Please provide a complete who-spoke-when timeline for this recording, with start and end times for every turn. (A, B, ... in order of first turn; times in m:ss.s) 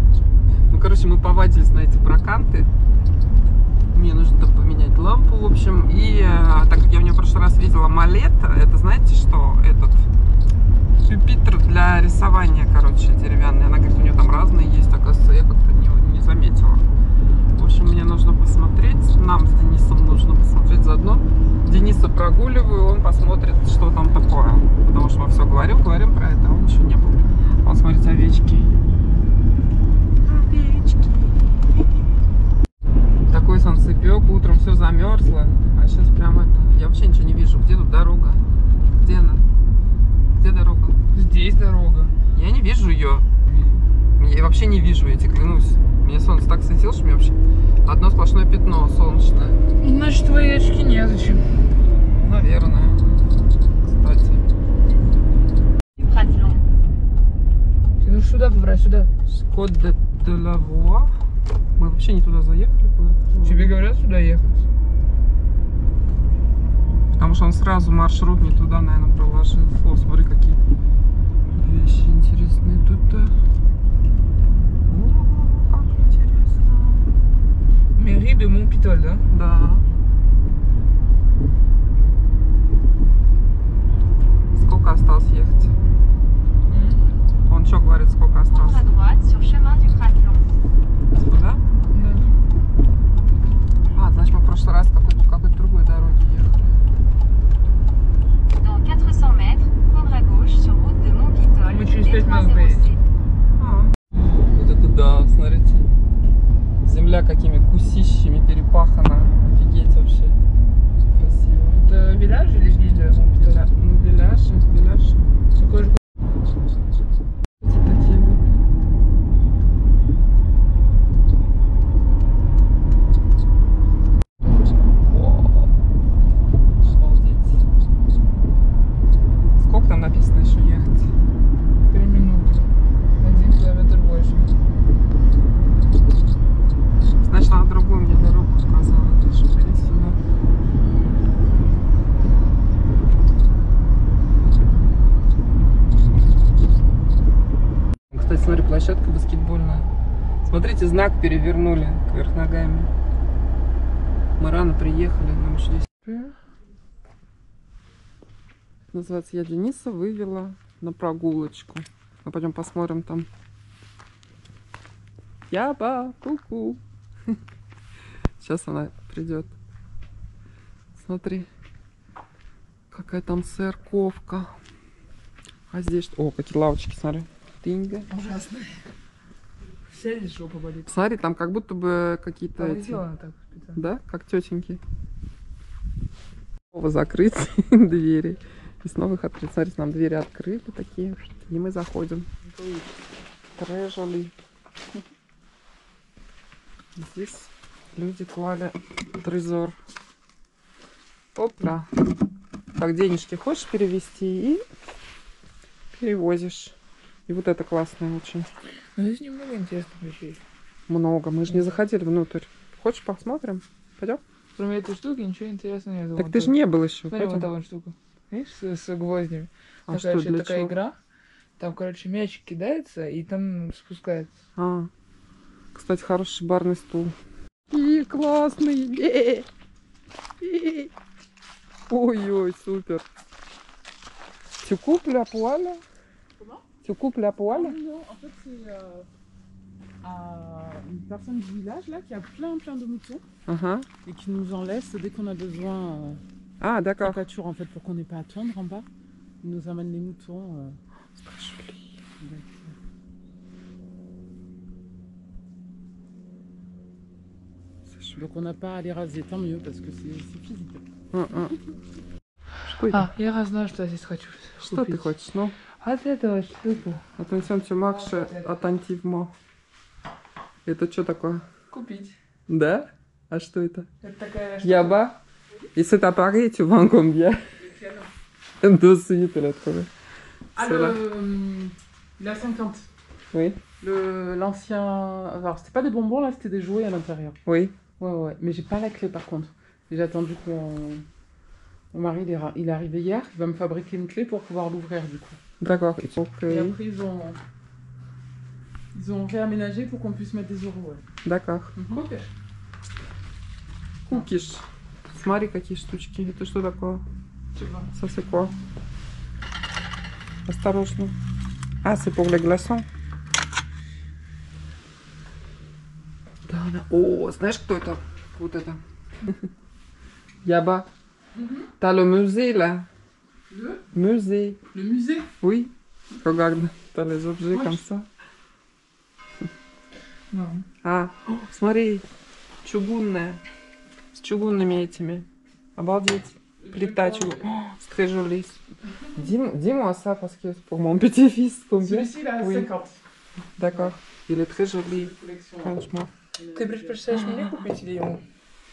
0:00.7-0:02.7 A
0:03.9-0:10.1 A
0:11.0-0:16.8 A
0:17.6-0:28.7 A
0:30.2-0:32.0 A
0:33.3-0:39.4 A
0:40.4-0:41.0 A
0:41.1-0:42.1 B
0:42.3-0:43.3 A
0:44.2-0:49.6 A
0:49.8-0:51.4 B
0:52.1-0:53.2 A
0:53.8-0:54.4 A
0:56.0-0:56.6 C
0:58.0-0:59.1 B
0:59.2-1:01.1 A
1:01.8-1:03.7 A
1:03.4-1:04.6 B
1:07.1-1:10.6 A
1:11.5-1:13.3 A
1:14.8-1:17.1 A
1:17.9-1:19.2 B
1:19.3-1:19.8 A
1:24.5-1:25.7 A
1:26.7-1:27.1 B
1:27.5-1:29.0 A
1:28.5-1:30.6 C
1:31.1-1:31.6 A
1:31.9-1:32.2 B
1:33.9-1:36.6 A
1:38.6-1:43.0 C
1:41.7-1:43.0 B
1:43.6-1:45.9 A
1:46.8-1:50.4 A
1:51.1-1:51.8 A
1:51.7-1:53.7 B
1:53.4-1:55.3 A
1:55.6-1:56.0 B
1:57.6-1:58.4 A
2:05.2-2:05.5 A
2:06.8-2:07.6 A
2:09.5-2:11.1 A
2:11.9-2:14.5 B
2:17.2-2:20.2 A
2:28.1-2:29.9 A
2:30.4-2:32.9 A
2:34.4-2:36.0 A
2:38.9-2:43.3 A
2:45.5-2:46.8 A
2:48.4-2:49.5 A
2:51.0-2:51.5 A
2:52.9-2:54.6 A
2:55.7-2:58.1 A
2:58.1-2:58.8 B
2:59.9-3:00.9 B
3:00.9-3:03.0 A
3:02.6-3:03.8 B
3:03.7-3:04.8 A
3:06.7-3:12.3 A
3:12.4-3:12.9 B
3:13.6-3:14.3 A
3:17.0-3:19.8 A
3:21.3-3:21.9 A
3:22.8-3:24.6 A
3:25.9-3:26.8 A
3:27.3-3:28.5 A
3:29.0-3:30.4 B
3:30.9-3:34.2 A
3:31.5-3:31.8 B
3:34.6-3:36.6 B
3:36.2-3:37.5 A
3:37.1-3:40.9 B
3:39.9-3:40.7 A
3:41.6-3:44.3 B
3:44.6-3:44.9 A
3:45.7-3:47.1 A
3:47.7-3:49.5 A
3:50.4-3:50.9 A
3:51.9-3:53.0 A
3:54.6-3:55.8 A
3:56.4-3:56.6 D
3:56.8-3:57.8 A
3:57.5-3:59.1 D
4:00.0-4:03.2 D
4:03.5-4:03.9 A
4:04.0-4:06.2 D
4:06.6-4:07.2 A
4:07.0-4:08.8 D
4:09.4-4:10.8 D
4:11.2-4:12.0 A
4:12.2-4:12.7 D
4:17.9-4:18.2 A
4:18.2-4:20.8 D
4:21.1-4:21.6 A
4:22.6-4:23.1 A
4:22.9-4:25.1 B
4:24.6-4:25.6 A
4:25.8-4:27.0 B
4:27.2-4:29.3 A
4:27.8-4:28.5 B
4:30.6-4:31.4 A
4:31.7-4:32.1 B
4:32.5-4:33.9 A
4:34.0-4:35.0 B
4:34.6-4:35.2 A
4:35.7-4:37.4 A
4:37.6-4:38.1 D
4:38.6-4:39.9 A
4:40.6-4:42.9 D
4:40.6-4:41.0 A
4:43.3-4:43.6 A
4:43.8-4:47.4 D
4:47.4-4:47.8 A
4:48.0-4:51.0 D
4:51.9-4:55.4 D
4:55.6-4:56.8 A
4:56.4-4:57.4 D
4:58.9-5:01.0 D
5:01.2-5:01.8 A
5:01.8-5:02.0 D
5:01.9-5:02.2 B
5:04.0-5:07.0 A
5:07.6-5:07.8 D
5:07.9-5:08.5 A
5:10.5-5:11.2 A
5:11.8-5:12.9 A
5:16.4-5:19.5 A
5:20.4-5:20.9 A
5:21.3-5:21.7 D
5:21.8-5:22.9 A
5:23.5-5:23.8 D
5:23.9-5:24.6 A
5:24.7-5:25.3 D
5:25.4-5:28.1 A
5:27.5-5:27.8 D
5:30.3-5:30.6 B
5:30.8-5:32.0 A
5:32.6-5:33.4 A
5:34.1-5:38.6 A
5:36.6-5:37.4 D
5:39.1-5:42.7 A
5:41.8-5:43.0 D
5:43.6-5:46.1 A
5:45.0-5:45.7 D
5:46.4-5:47.1 D
5:46.5-5:48.2 B
5:47.1-5:47.5 A